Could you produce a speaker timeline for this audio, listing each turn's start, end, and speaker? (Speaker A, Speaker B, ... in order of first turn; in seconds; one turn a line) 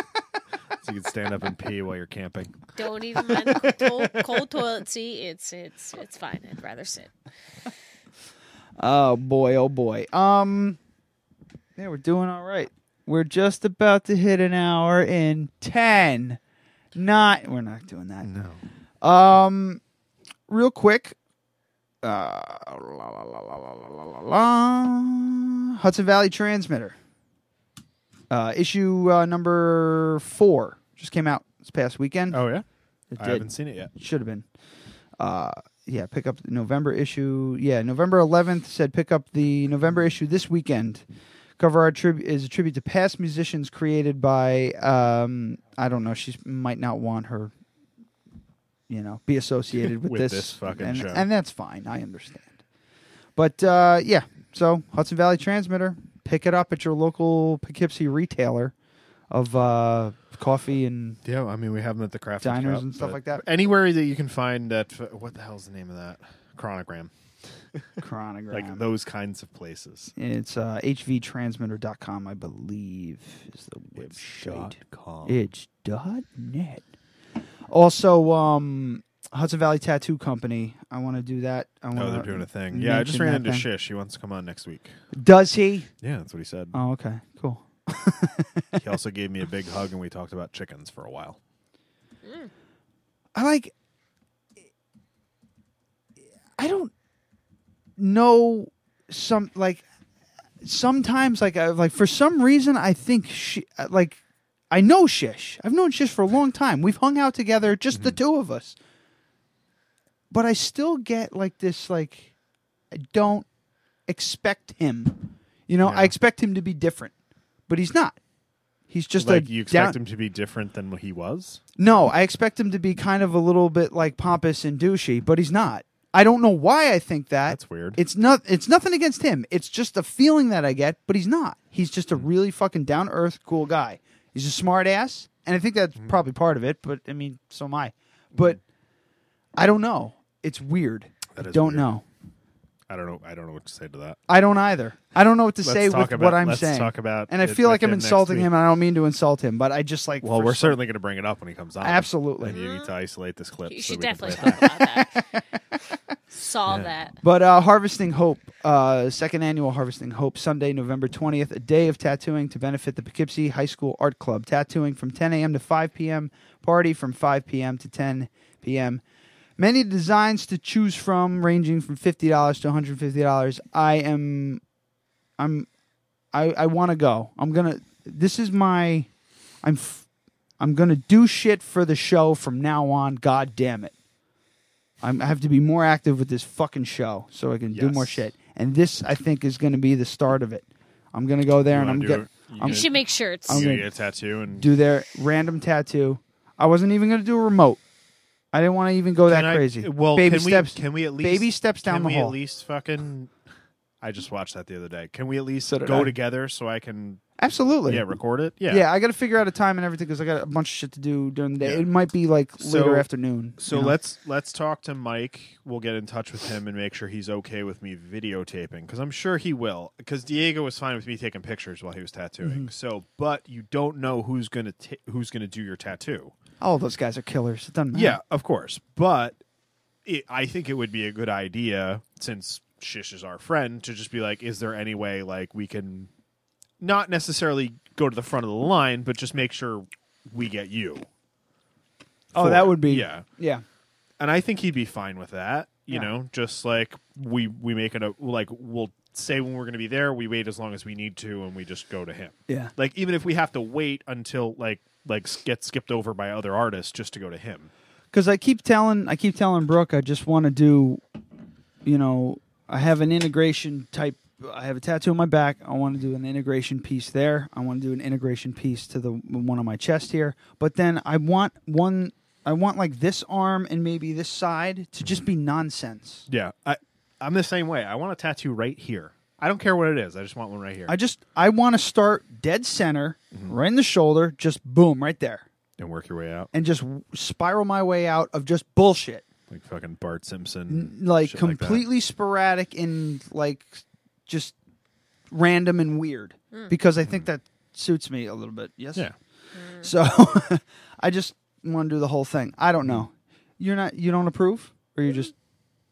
Speaker A: 0.8-4.6
Speaker B: 2.8-7.1
Speaker C: 8.8-10.8
Speaker C: 11.8-16.4
Speaker C: 16.9-18.3
Speaker A: 18.2-18.6
Speaker C: 19.0-19.8
Speaker C: 20.5-21.2
Speaker C: 22.0-27.0
Speaker C: 28.3-32.4
Speaker A: 32.3-32.6
Speaker C: 33.1-34.5
Speaker A: 33.2-33.9
Speaker C: 35.2-41.0
Speaker C: 41.6-47.5
Speaker C: 48.9-52.5
Speaker A: 50.0-51.3
Speaker C: 53.4-58.7
Speaker C: 59.3-61.2
Speaker A: 61.2-67.1
Speaker C: 62.4-63.4
Speaker C: 68.0-68.8
Speaker A: 68.5-70.1
Speaker C: 70.2-76.8
Speaker A: 74.0-75.4
Speaker C: 77.7-83.7
Speaker A: 81.9-85.0
Speaker C: 85.1-85.9
Speaker A: 86.0-86.8
Speaker C: 86.7-88.8
Speaker A: 88.8-91.4
Speaker B: 92.2-92.5
Speaker C: 93.3-93.7
Speaker C: 96.6-96.9
Speaker C: 98.0-99.8
Speaker C: 100.6-104.2
Speaker C: 104.7-108.8
Speaker A: 107.9-108.2
Speaker C: 110.3-112.3
Speaker C: 112.9-113.5
Speaker C: 114.1-117.1
Speaker A: 115.8-116.1
Speaker C: 117.7-118.2
Speaker C: 118.9-120.0
Speaker A: 119.2-121.6
Speaker C: 121.8-138.6
Speaker A: 127.5-128.0
Speaker C: 139.6-142.1
Speaker A: 141.4-141.9
Speaker A: 142.9-144.2
Speaker C: 144.3-150.8
Speaker A: 145.6-148.5
Speaker A: 150.2-154.8
Speaker C: 151.8-152.6
Speaker B: 152.5-152.9
Speaker B: 153.7-155.2
Speaker C: 155.1-155.4
Speaker B: 156.3-157.2
Speaker A: 156.7-156.9
Speaker C: 157.2-169.0
Speaker C: 169.6-174.6
Speaker C: 175.4-175.7
Speaker C: 176.3-179.1
Speaker C: 179.6-180.1
Speaker C: 180.6-183.9
Speaker C: 185.0-192.9
Speaker A: 187.7-188.2
Speaker A: 191.7-194.7
Speaker B: 192.6-193.8
Speaker C: 193.4-193.9
Speaker C: 194.6-197.8
Speaker C: 198.5-202.4
Speaker A: 199.3-203.3
Speaker A: 204.0-207.2
Speaker C: 205.7-206.1
Speaker C: 207.4-208.0
Speaker A: 207.9-208.9
Speaker C: 208.7-214.0
Speaker A: 211.6-211.9
Speaker A: 212.6-226.3
Speaker C: 222.4-222.7
Speaker C: 226.6-228.2
Speaker A: 227.9-229.4
Speaker A: 230.1-236.1
Speaker A: 236.8-241.1
Speaker A: 242.3-243.3
Speaker C: 242.3-243.6
Speaker A: 244.2-257.7
Speaker C: 258.1-261.0
Speaker C: 261.9-276.2
Speaker A: 276.3-280.9
Speaker C: 280.9-285.4
Speaker A: 285.8-286.5
Speaker C: 286.5-289.2
Speaker A: 289.5-291.9
Speaker C: 290.7-294.6
Speaker C: 295.3-299.1
Speaker B: 299.5-299.9
Speaker C: 299.8-305.3